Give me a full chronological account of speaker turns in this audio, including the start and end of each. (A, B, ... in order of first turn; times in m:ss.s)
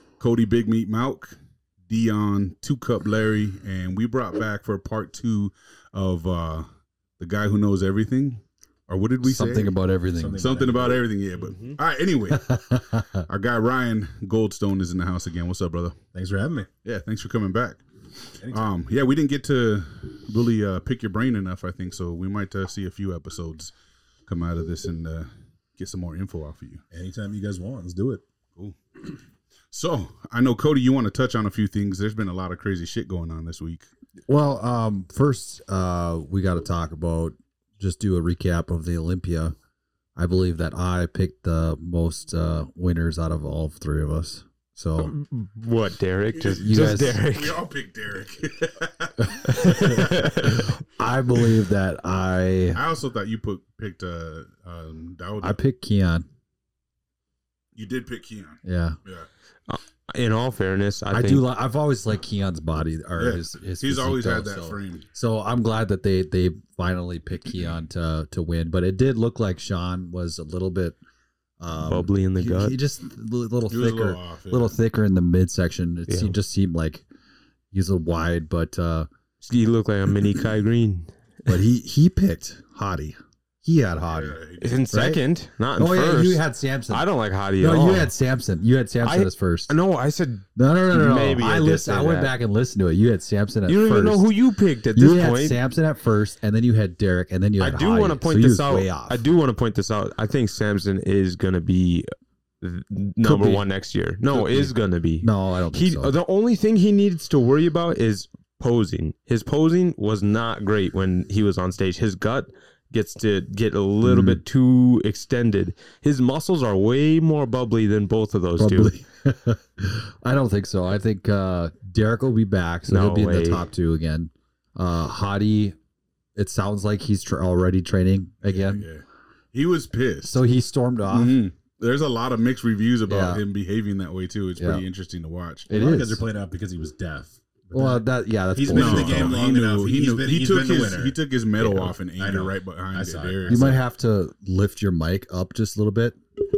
0:00.2-0:01.4 A
0:01.9-0:06.7 A
0:07.2-0:09.7 A
0:09.2-0:10.4 B
0:10.1-0:11.0 C
0:10.4-0:16.0 A
0:11.5-0:11.8 D
0:12.3-0:13.2 B
0:16.1-0:16.7 C
0:16.8-0:17.8 A
0:18.4-0:18.6 C
0:18.4-0:23.7 A
0:24.3-0:26.8 A
0:26.9-0:28.2 C
0:29.7-0:33.9 A
0:34.3-0:39.5 B
0:40.2-0:45.1 B
0:45.0-0:47.6 D
0:46.4-0:50.5 A
0:46.6-0:47.2 B
0:49.4-0:52.8 B
0:49.5-0:50.7 D
0:52.7-0:55.6 A
0:55.4-0:56.3 B
0:57.8-0:59.3 A
0:58.6-0:59.0 B
0:59.7-1:01.4 D
1:01.1-1:11.0 B
1:03.2-1:05.0 A
1:11.6-1:17.0 B
1:11.8-1:12.8 D
1:13.7-1:14.7 A
1:16.1-1:16.3 D
1:17.7-1:19.1 B
1:19.4-1:21.5 D
1:21.5-1:24.4 B
1:24.1-1:24.8 A
1:24.6-1:28.1 D
1:24.9-1:25.2 B
1:25.8-1:27.0 B
1:27.6-1:29.7 B
1:29.0-1:32.3 D
1:30.6-1:34.3 B
1:33.7-1:35.6 D
1:34.9-1:39.2 B
1:37.6-1:42.1 D
1:42.6-1:58.9 D
1:43.2-1:43.6 B
1:44.3-1:46.1 B
1:54.0-1:54.4 B
1:58.6-2:05.8 B
2:02.9-2:03.7 D
2:06.4-2:08.8 B
2:08.4-2:10.4 A
2:10.3-2:11.4 B
2:11.1-2:15.7 A
2:13.1-2:13.4 B
2:14.6-2:14.8 B
2:15.7-2:16.2 B
2:15.7-2:23.8 C
2:17.7-2:19.4 B
2:18.7-2:23.8 A
2:23.5-2:26.2 B